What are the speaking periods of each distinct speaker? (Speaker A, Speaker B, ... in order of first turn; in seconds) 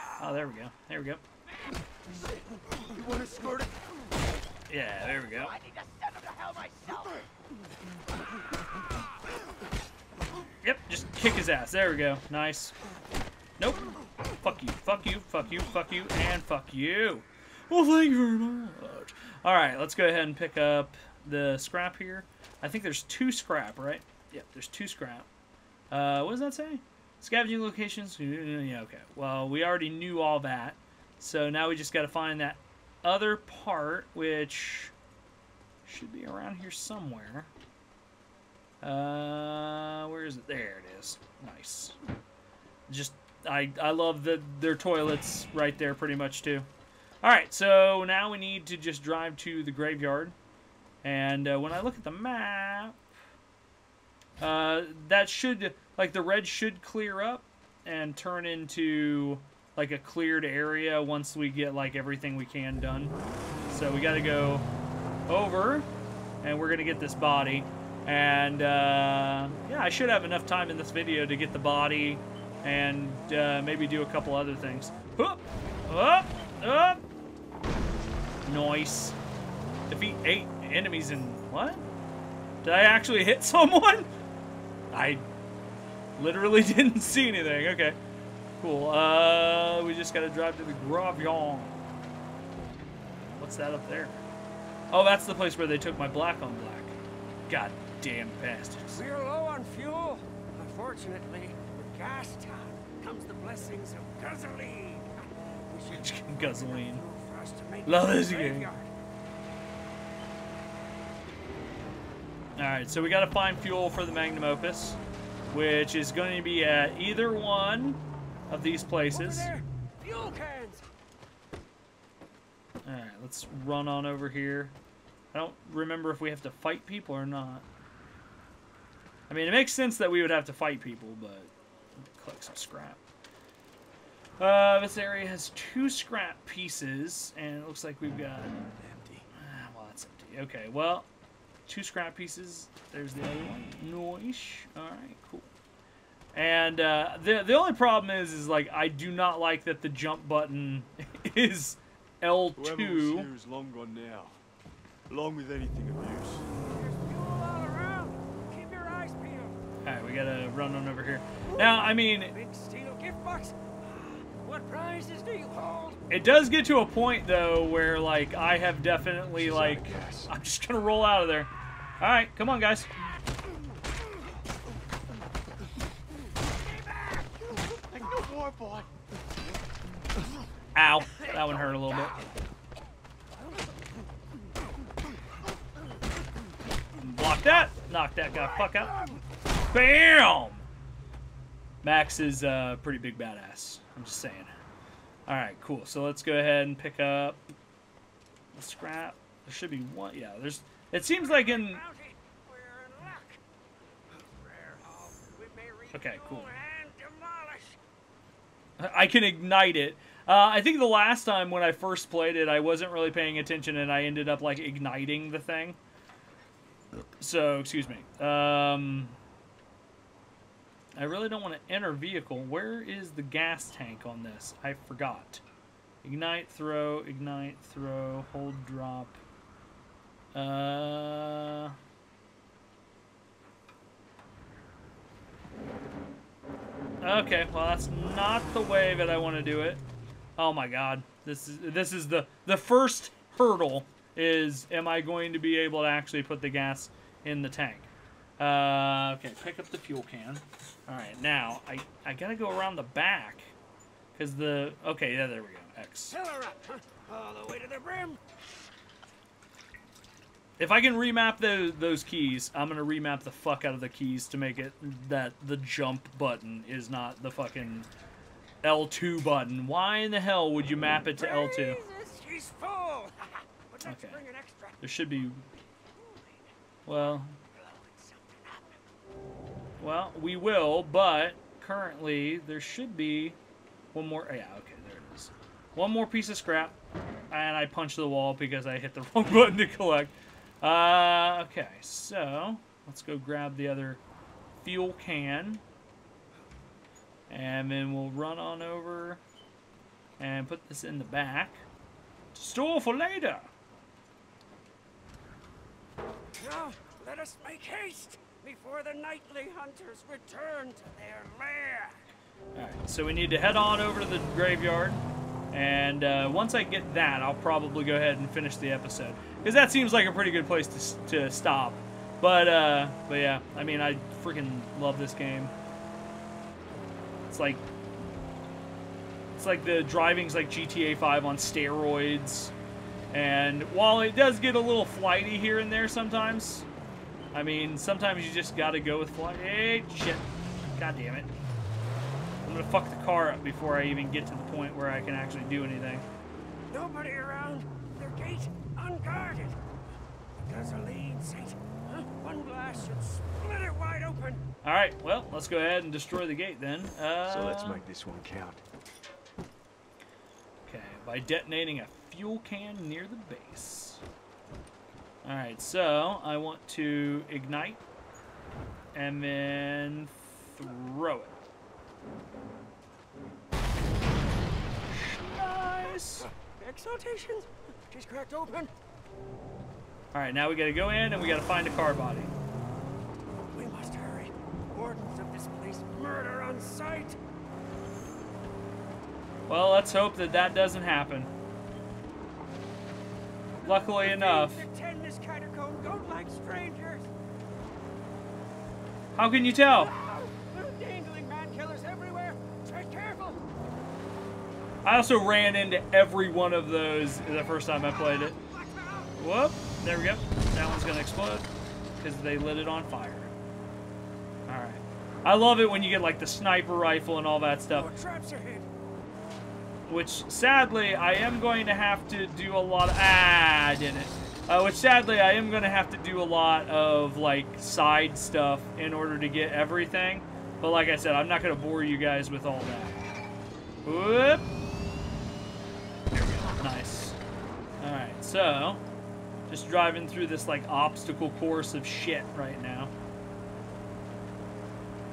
Speaker A: 0.2-1.2, 4.7-5.6, 10.6-12.7, 13.6-25.3, 25.9-34.9, 35.8-37.5, 38.8-42.0, 42.9-46.7, 47.2-50.3, 51.0-53.0, 54.4-63.1, 63.7-64.7, 65.3-65.9, 66.4-77.0, 78.4-79.2, 79.9-81.9, 82.6-84.1, 84.9-85.2, 86.2-88.0, 88.6-91.9, 93.2-94.2, 94.9-97.0, 97.5-99.0, 105.9-107.0, 107.8-108.7, 112.5-115.0, 115.5-119.5, 122.8-124.7, 125.3-127.6, 129.3-133.0, 134.4-138.6, 139.3-141.1, 141.7-145.5, 146.3-153.3, 159.8-162.3, 166.1-172.9, 180.7-182.2, 187.0-189.1, 189.7-190.7, 191.8-194.5, 195.2-197.4, 198.5-201.8, 205.9-206.5, 208.8-215.8, 217.2-219.2, 220.9-225.4, 226.0-229.2, 230.3-231.8, 237.0-239.8, 240.4-253.5, 254.1-256.2, 260.6-267.9, 268.6-271.8, 273.8-274.2, 274.8-275.4, 276.9-277.4, 279.8-283.4, 283.9-286.8, 287.3-294.0, 294.6-295.6, 297.3-299.2, 300.2-301.6, 302.3-303.5, 312.5-325.5, 327.3-327.6, 329.3-332.5, 333.1-336.7, 337.3-341.3, 342.4-346.1, 354.6-357.8, 360.6-364.0, 365.2-367.8, 368.9-371.4, 374.9-376.3, 380.1-382.3, 389.5-391.3, 393.6-394.6, 399.1-399.9, 404.8-408.4, 409.2-411.5, 412.0-413.3, 414.5-417.9, 419.9-433.0, 433.8-434.5, 436.1-437.2, 437.8-438.8, 439.5-442.9
Speaker B: 2.8-3.8, 138.8-139.3, 152.6-154.4, 155.1-156.5, 169.3-170.3, 177.9-178.9, 357.2-358.6
Speaker C: 5.7-7.1, 98.9-108.9, 119.1-120.8, 156.6-159.6, 162.3-166.0, 176.6-178.3, 201.1-203.4, 204.7-207.8, 256.1-258.2, 271.1-274.8, 275.9-276.3, 276.9-278.8, 306.4-312.0, 346.7-349.6, 350.4-354.4, 375.9-378.7, 383.5-387.2, 393.6-397.1, 399.6-403.4, 408.0-409.1, 417.7-418.7